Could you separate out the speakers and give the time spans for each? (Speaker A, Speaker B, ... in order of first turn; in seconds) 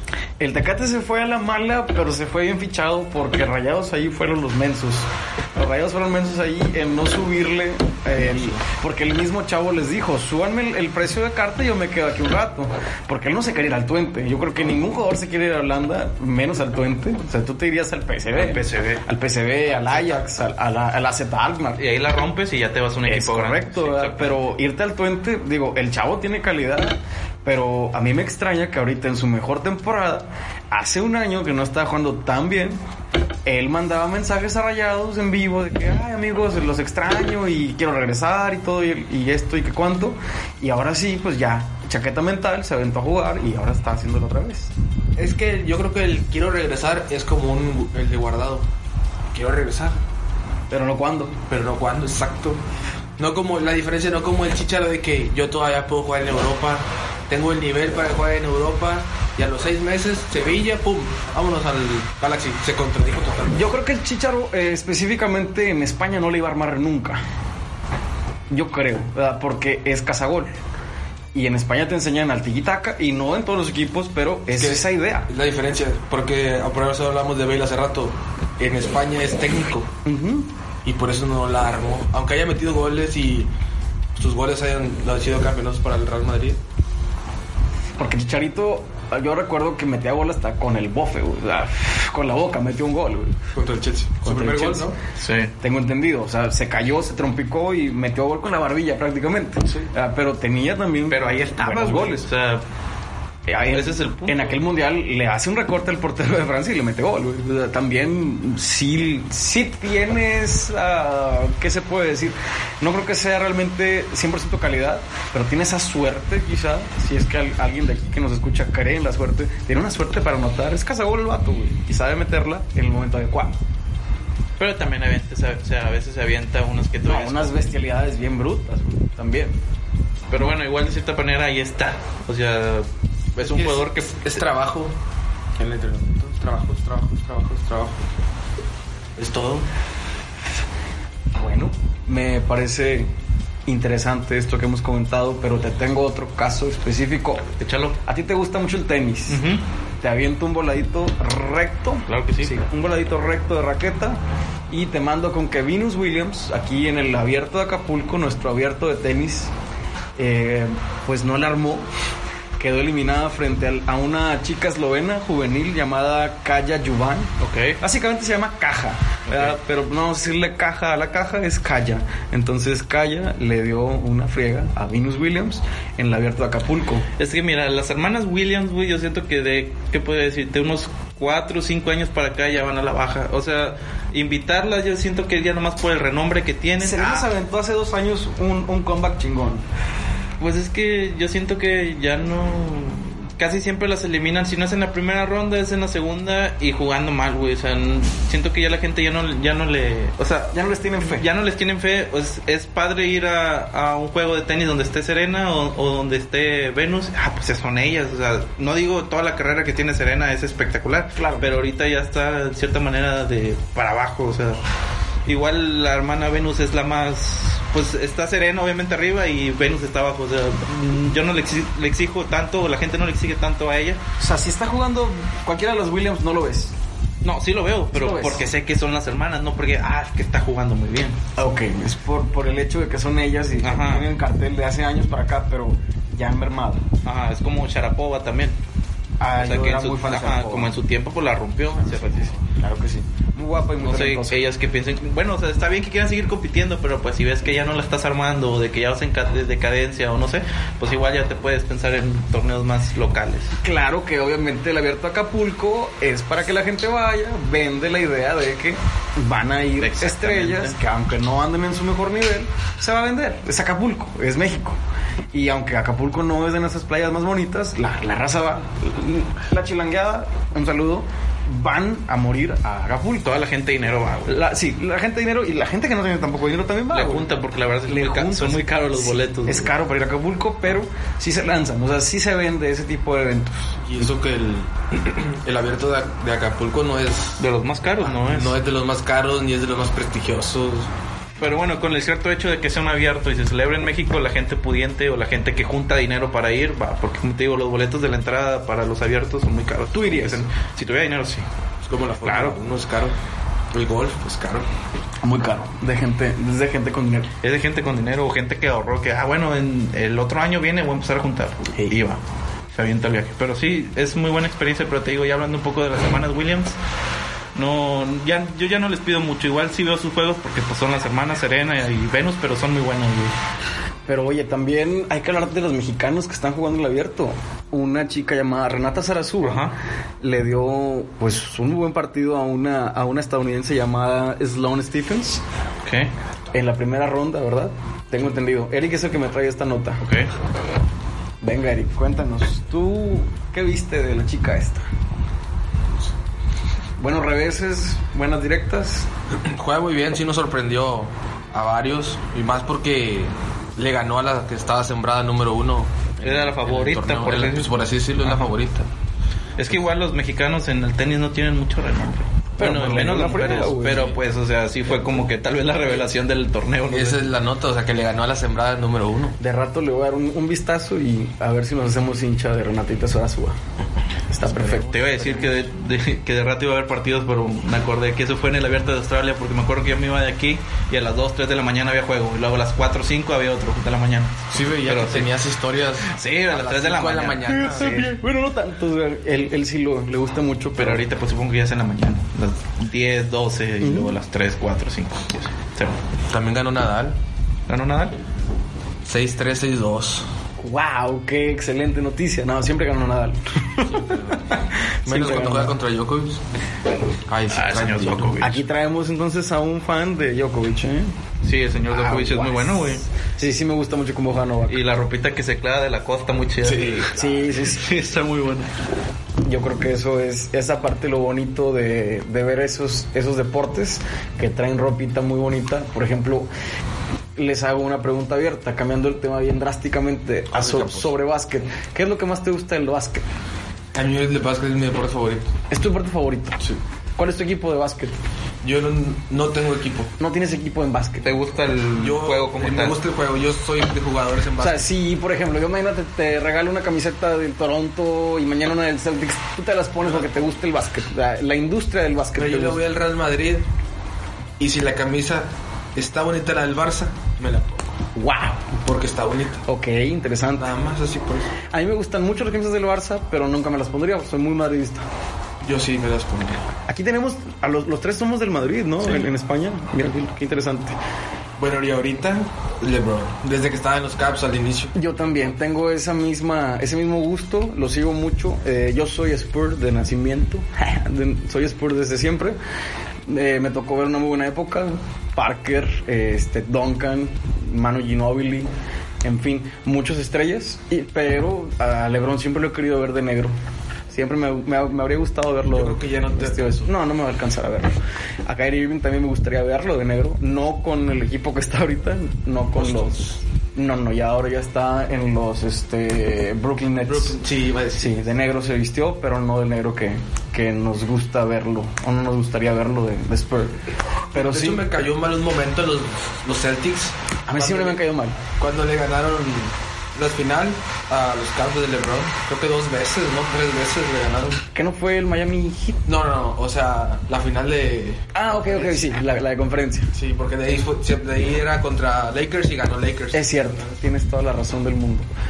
Speaker A: 0.4-21.8, 23.1-32.8, 33.5-44.7, 50.7-51.4, 63.5-67.2, 68.5-70.5, 71.3-75.3, 80.0-80.5, 88.0-93.4, 94.2-94.9, 95.6-102.3, 103.5-123.5, 127.0-129.6, 141.3-143.1, 143.7-147.5, 148.0-149.4, 150.0-159.5, 160.2-161.9, 162.6-177.1, 186.8-189.6, 200.5-201.3, 211.2-211.5, 224.2-226.7, 227.9-228.4, 231.4-236.8, 239.2-240.7, 241.8-244.4, 253.6-264.8, 265.3-273.3, 274.2-277.3, 277.8-284.1, 299.9-300.4, 305.2-307.3, 324.1-335.4, 336.5-340.0, 341.4-344.8, 347.0-349.1, 362.6-364.2, 369.4-373.6, 374.3-374.9, 387.4-391.0, 393.8-394.1, 400.6-405.8, 408.4-411.1, 411.9-414.8, 417.1-417.8, 419.4-426.5, 427.4-433.2, 435.7-436.6, 437.2-438.2, 440.2-441.3, 444.6-452.8, 458.1-458.7, 459.7-460.7, 461.7-465.0, 466.9-470.9, 474.9-482.6, 483.3-488.7, 489.2-493.5, 494.1-503.2, 503.7-507.4, 508.0-513.8, 514.3-514.9, 517.5-518.4, 524.7-526.0, 528.3-530.1, 533.3-535.3
Speaker B: 8.3-8.6, 19.8-20.2, 45.1-48.7, 49.3-50.0, 51.5-52.6, 53.2-63.8, 74.5-79.9, 80.8-83.5, 84.2-86.6, 93.5-95.0, 133.4-134.9, 135.6-138.0, 139.2-139.7, 283.8-287.4, 288.0-290.9, 301.8-303.1, 303.7-304.7, 349.5-358.9, 366.9-369.4, 374.5-375.6, 384.5-388.1, 396.3-397.2, 399.0-400.2, 403.8-404.5, 405.1-406.4, 407.3-408.4, 416.6-417.3, 430.5-431.1, 433.9-435.5, 438.6-440.1, 441.9-444.9, 452.4-453.6, 454.6-457.9, 458.8-459.6, 460.6-461.5, 465.6-466.6, 471.6-474.9, 495.7-496.9, 502.7-503.4, 507.1-508.3, 514.3-518.0, 518.6-524.6, 526.0-529.2, 530.1-533.9
Speaker C: 18.3-19.0, 21.8-24.4, 95.2-95.5, 101.1-102.6, 103.7-104.5, 124.6-127.5, 130.3-134.4, 147.6-148.0, 149.3-149.6, 152.1-152.5, 167.4-167.8, 169.3-169.6, 177.2-187.3, 190.4-214.6, 215.2-224.0, 227.2-231.2, 233.6-234.1, 237.0-238.6, 239.4-242.3, 243.8-253.5, 259.8-260.8, 273.2-274.3, 276.9-279.7, 287.4-288.6, 291.4-301.4, 302.2-302.6, 307.4-316.8, 317.5-323.4, 329.4-329.7, 335.8-336.1, 340.0-340.3, 356.2-358.5, 359.6-367.2, 374.6-385.3, 386.0-388.0, 390.8-396.0, 397.7-398.2, 407.5-408.6, 411.4-413.0, 414.7-418.7, 441.2-443.0